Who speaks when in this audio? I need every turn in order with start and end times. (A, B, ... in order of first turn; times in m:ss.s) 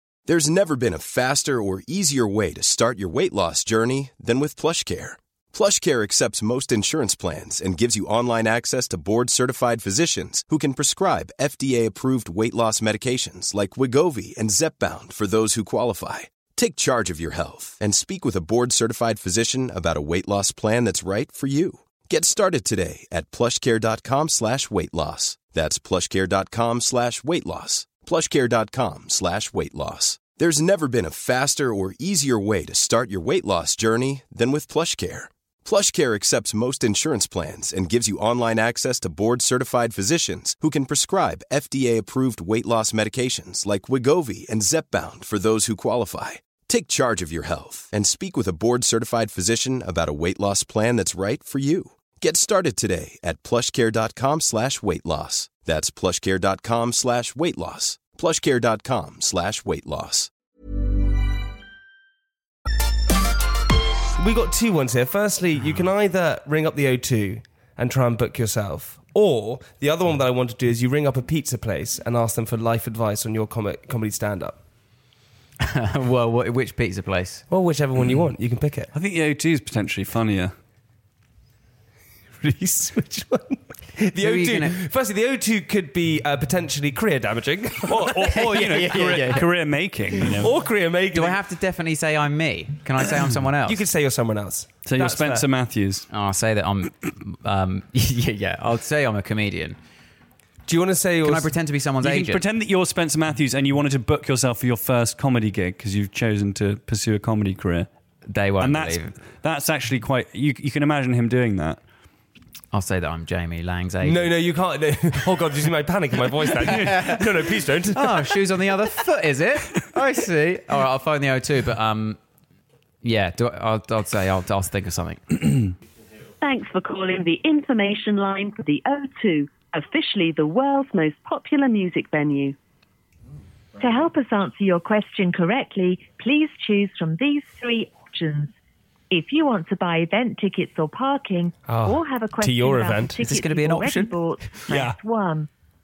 0:00.3-1:00.3 A
1:04.2-1:14.6 B
1:15.6-1:17.4 C
1:17.5-1:18.9 B
1:18.9-1:20.5 D
1:22.4-1:29.4 B
1:24.1-1:24.8 C
1:27.9-1:30.5 D
1:28.6-1:29.4 C
1:30.2-1:31.4 B
1:31.1-1:33.8 C
1:33.6-1:35.5 B
1:34.8-1:36.1 D
1:36.1-1:39.8 C
1:40.6-1:41.6 B
1:41.2-1:42.4 C
1:42.0-1:47.9 D
1:48.3-1:49.2 C
1:48.6-1:51.8 D
1:52.7-1:54.5 C
1:54.0-1:58.4 B
1:56.7-1:57.3 C
1:57.9-2:02.2 C
2:03.0-2:05.6 C
2:06.4-2:12.6 E
2:13.8-2:18.5 E
2:19.1-2:25.5 E
2:21.6-2:23.2 B
2:23.2-2:24.6 C
2:24.7-2:25.0 B